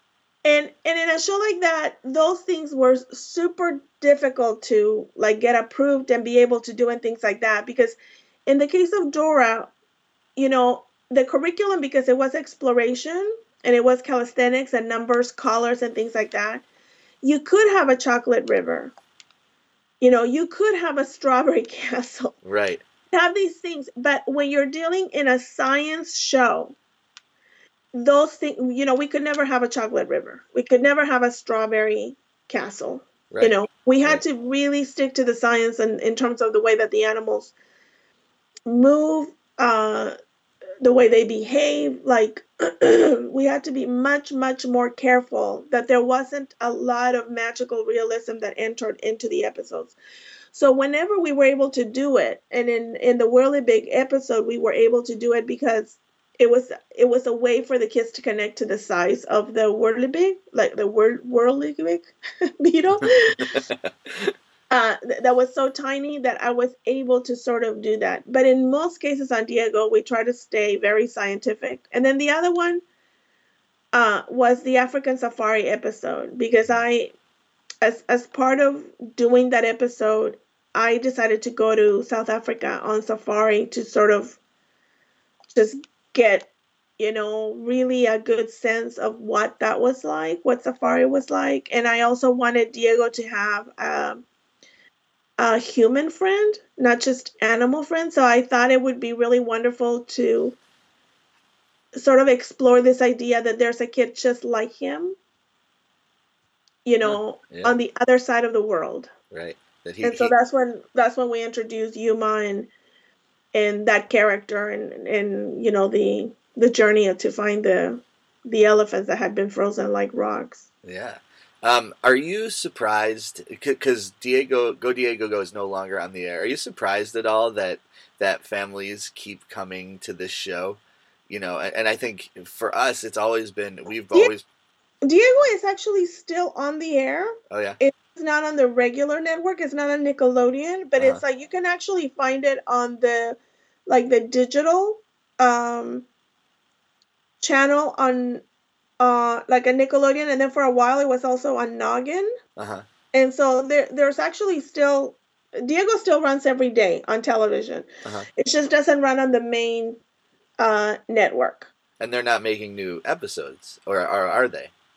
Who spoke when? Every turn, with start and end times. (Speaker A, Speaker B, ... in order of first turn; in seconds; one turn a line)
Speaker A: 0.4-9.7
Speaker A: 10.4-16.6
Speaker A: 17.2-18.9
Speaker A: 20.0-22.4
Speaker B: 22.4-22.8
Speaker A: 23.1-26.8
Speaker A: 27.9-37.5
Speaker B: 33.3-34.2
Speaker A: 38.6-40.1
Speaker A: 40.8-49.9
Speaker A: 50.5-62.1
Speaker A: 62.6-63.6
Speaker B: 63.0-64.3
Speaker A: 64.7-72.8
Speaker A: 73.9-77.1
Speaker A: 77.8-84.4
Speaker A: 85.5-94.2
Speaker A: 95.4-100.5
Speaker A: 101.9-105.2
Speaker A: 106.8-109.1
Speaker B: 107.0-107.8
Speaker B: 109.3-110.3
Speaker A: 110.0-112.7
Speaker A: 113.5-120.7
Speaker B: 120.8-134.4
Speaker A: 135.0-146.1
Speaker B: 137.5-137.8
Speaker A: 147.4-148.4
Speaker A: 149.0-152.3
Speaker B: 152.6-152.9
Speaker A: 153.1-160.0
Speaker A: 160.6-161.7
Speaker B: 162.0-164.7